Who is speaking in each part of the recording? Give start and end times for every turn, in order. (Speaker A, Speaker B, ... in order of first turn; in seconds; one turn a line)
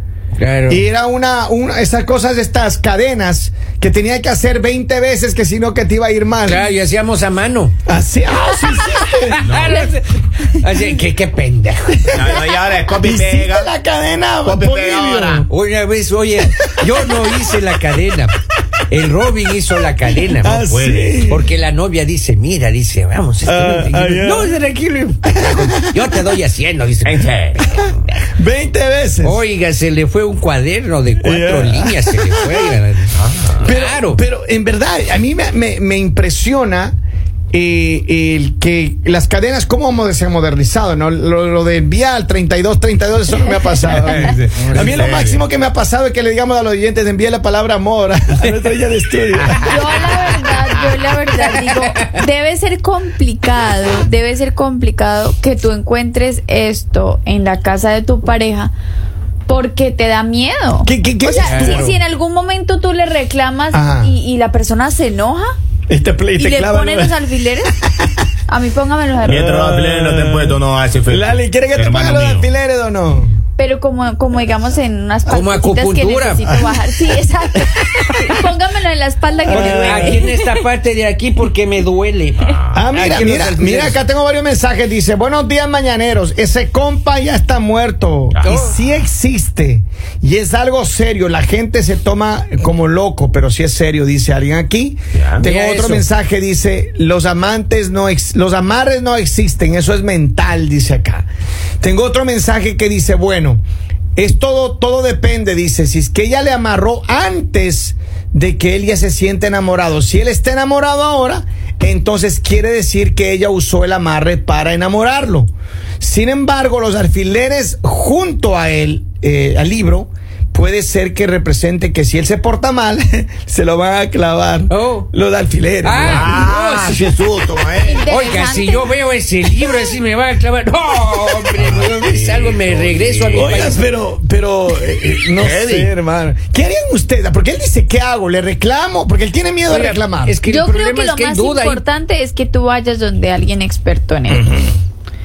Speaker A: 0.4-0.8
Speaker B: 0.7-6.7
Speaker A: 6.4-7.7
Speaker B: 7.9-9.4
Speaker A: 9.4-12.3
Speaker C: 9.4-9.9
Speaker C: 12.1-13.7
Speaker B: 13.0-15.5
Speaker C: 14.4-15.5
Speaker A: 15.5-18.4
Speaker A: 18.9-27.8
Speaker B: 20.4-21.5
Speaker C: 20.6-21.2
Speaker B: 23.4-24.6
Speaker B: 25.3-26.1
Speaker C: 27.1-28.1
Speaker B: 28.4-29.4
Speaker A: 29.2-34.2
Speaker B: 31.2-32.7
Speaker C: 33.2-33.6
Speaker B: 33.6-37.0
Speaker B: 37.5-50.3
Speaker D: 43.4-44.2
Speaker C: 43.9-45.5
Speaker A: 44.6-45.0
Speaker D: 49.6-58.7
Speaker A: 51.5-52.1
Speaker D: 59.5-65.5
Speaker B: 60.8-62.0
Speaker A: 61.4-61.9
Speaker B: 63.7-64.1
Speaker B: 65.9-67.2
Speaker D: 66.4-67.7
Speaker D: 68.5-69.6
Speaker C: 69.2-72.5
Speaker B: 69.3-73.3
Speaker D: 73.6-80.3
Speaker A: 75.3-76.5
Speaker B: 76.5-76.8
Speaker B: 77.6-78.4
Speaker B: 79.5-80.4
Speaker A: 79.5-84.0
Speaker C: 82.4-82.8
Speaker B: 82.7-101.3
Speaker C: 88.3-88.7
Speaker A: 88.4-88.8
Speaker C: 95.2-95.5
Speaker A: 95.4-96.0
Speaker B: 101.8-103.6
Speaker B: 104.2-115.5
Speaker B: 116.0-126.4
Speaker A: 124.7-125.1
Speaker A: 125.8-133.8
Speaker C: 126.0-128.0
Speaker D: 127.8-128.9
Speaker C: 131.6-133.8
Speaker B: 133.3-140.4
Speaker C: 135.4-135.9
Speaker A: 139.7-141.8
Speaker D: 140.5-144.5
Speaker B: 144.3-144.8